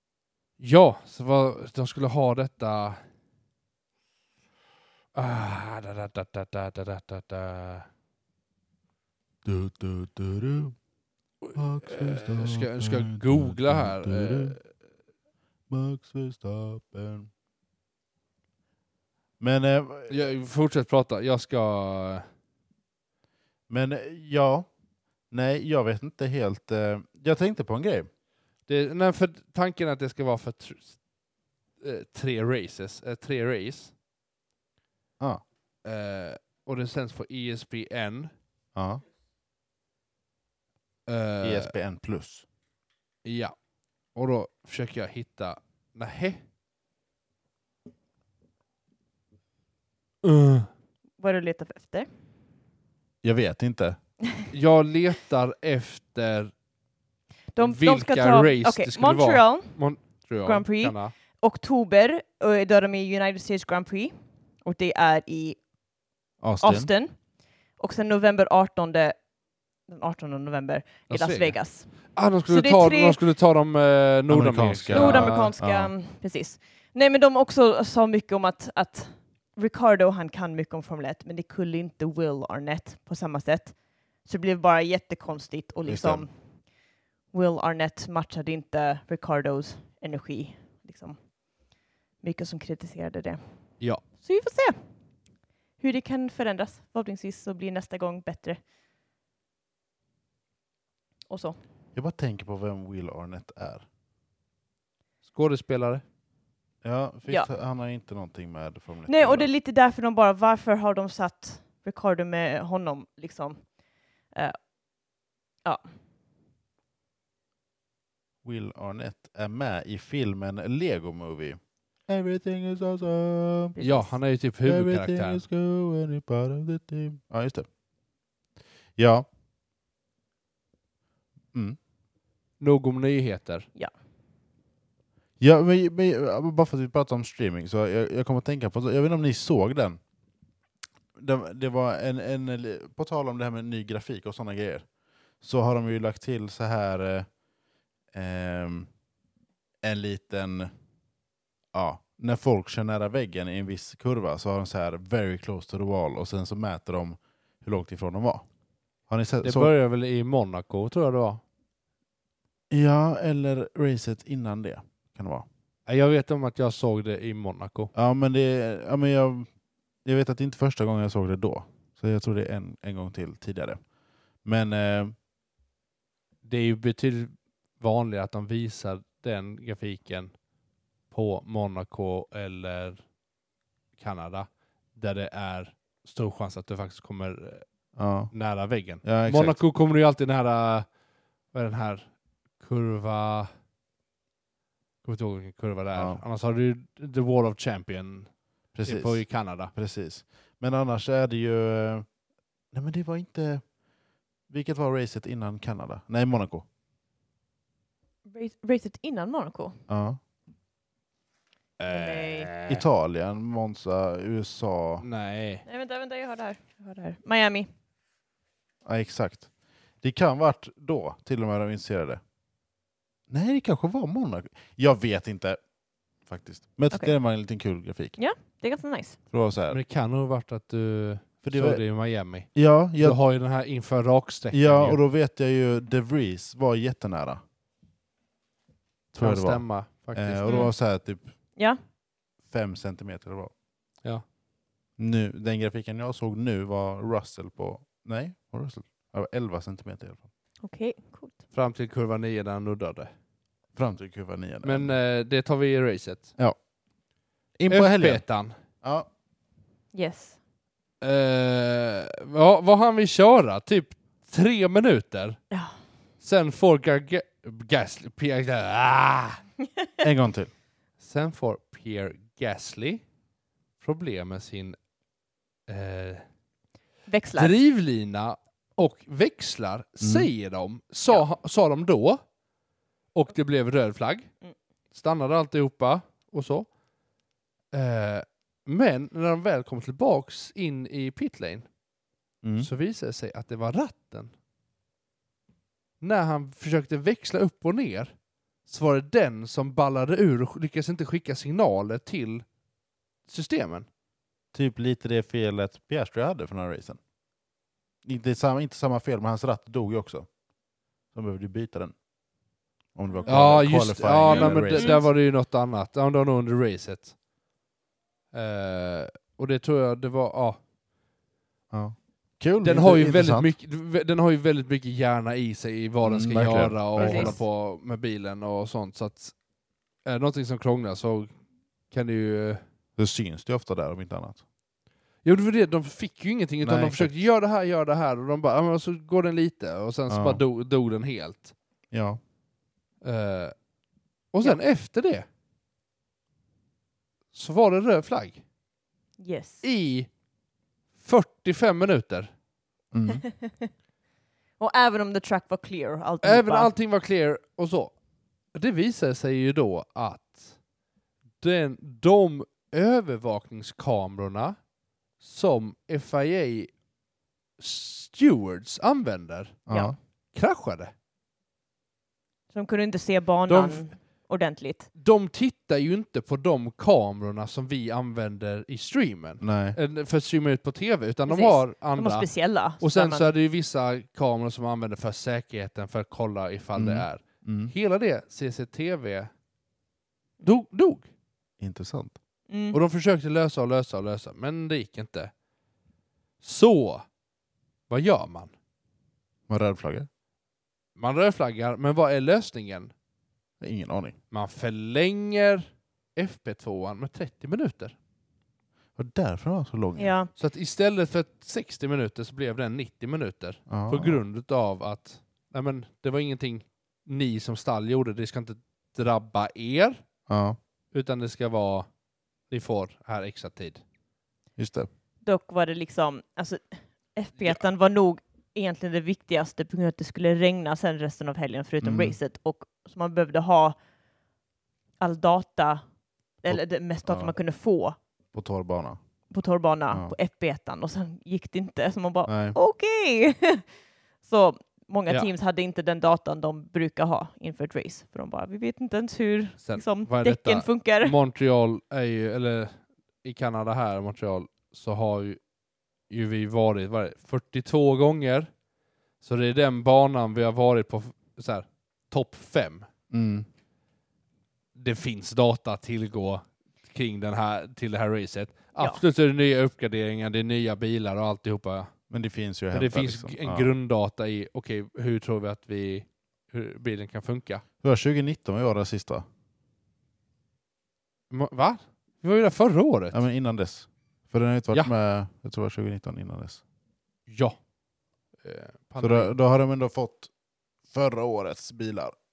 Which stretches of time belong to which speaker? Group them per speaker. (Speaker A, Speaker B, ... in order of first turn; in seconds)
Speaker A: 0.6-3.0, 5.1-7.9, 11.4-14.6, 20.1-22.2, 28.7-31.0, 31.8-33.9, 35.8-38.3, 41.1-41.7, 43.2-43.5, 44.1-46.4, 50.2-50.7, 54.5-56.5, 57.6-61.1, 71.1-75.5, 105.2-106.0, 123.8-125.4, 132.6-133.7, 159.4-161.4, 165.9-167.9, 176.4-180.3, 181.1-183.1, 184.0-187.7, 188.3-190.9, 191.5-193.5, 195.0-199.7, 211.8-212.8, 215.0-215.6, 229.7-235.0, 239.2-240.7, 251.5-253.1, 254.6-256.3, 257.7-258.5, 261.0-265.4, 266.2-269.4, 271.0-273.0, 273.8-274.8, 275.7-276.2, 277.3-282.2, 283.1-284.3, 284.9-286.7, 287.7-291.7, 292.6-294.3, 296.0-298.1, 298.6-302.4, 303.3-303.9, 313.3-317.1, 318.3-320.6, 322.6-329.4, 330.0-331.4, 331.9-332.6, 335.2-341.5, 343.0-343.5, 344.3-345.2, 347.3-348.4, 349.6-350.1, 351.0-352.3, 356.2-357.9, 358.5-360.5, 361.4-364.6, 365.2-366.7, 367.6-369.6, 370.3-370.9, 373.5-373.9, 375.0-389.3, 390.4-391.1, 392.7-395.3, 396.4-397.1, 397.9-398.5, 400.9-402.9, 404.3-407.9, 410.4-420.0, 420.9-421.9, 422.5-423.8, 449.6-455.4, 456.1-458.5, 459.2-462.9, 464.7-471.9, 472.7-477.6, 481.3-483.2, 487.3-487.6, 488.4-489.3
Speaker B: 9.4-10.7, 11.5-14.6, 15.7-17.3, 19.4-20.3, 23.7-24.7, 25.3-28.1, 38.7-39.0, 41.4-42.4, 53.2-54.0, 66.4-66.9, 74.3-75.9, 85.8-86.3, 101.9-103.8, 106.8-109.5, 118.4-123.8, 124.6-127.7, 128.9-129.3, 135.4-140.0, 141.2-144.9, 145.4-147.3, 148.1-148.9, 149.8-150.7, 151.7-158.4, 159.1-159.7, 162.7-165.5, 167.9-169.5, 170.0-173.8, 174.4-175.1, 188.0-188.3, 189.0-189.6, 195.9-196.2, 198.7-202.1, 202.7-203.7, 204.5-206.7, 209.9-210.2, 212.7-215.0, 218.8-219.5, 220.0-222.2, 223.3-225.6, 226.2-228.2, 229.3-229.8, 231.4-231.8, 232.5-233.2, 234.5-237.4, 239.1-241.3, 242.4-243.5, 245.0-250.2, 253.7-254.9, 257.6-258.2, 258.8-259.1, 270.0-270.5, 280.0-280.3, 292.4-292.7, 304.5-307.0, 308.0-310.3, 311.1-311.9, 312.9-315.0, 321.7-323.5, 326.0-327.4, 333.0-334.4, 336.6-337.1, 340.1-340.4, 341.9-342.2, 352.9-353.2, 369.7-369.9, 379.4-379.8, 386.7-387.7, 391.6-392.1, 399.5-400.1, 403.6-404.2, 408.9-410.1, 413.7-414.2, 420.3-420.6, 424.6-424.9, 431.8-432.2, 436.4-437.3, 438.3-439.0, 442.3-442.6, 463.1-463.5, 472.1-473.7, 477.8-479.2, 483.1-486.6, 489.0-490.3, 490.9-492.1
Speaker C: 51.2-52.1, 57.5-59.8, 60.4-65.6, 66.6-67.2, 67.7-69.2, 69.8-73.2, 74.9-86.7, 87.3-91.3, 92.2-94.8, 95.8-98.6, 101.3-101.6, 109.1-113.8, 114.3-114.7, 123.8-124.1, 208.3-209.8, 211.9-212.5, 215.7-217.7, 228.2-229.2, 240.4-240.7, 250.6-251.4, 259.9-260.4, 265.5-265.8, 277.1-277.5, 314.3-315.1, 327.0-327.4, 349.2-349.6, 353.1-353.7, 354.6-356.7, 372.5-374.9, 381.3-383.3, 392.5-392.8, 410.0-410.3, 425.2-433.8, 435.0-435.8, 436.4-438.0, 439.3-443.6, 444.2-451.1, 468.8-469.0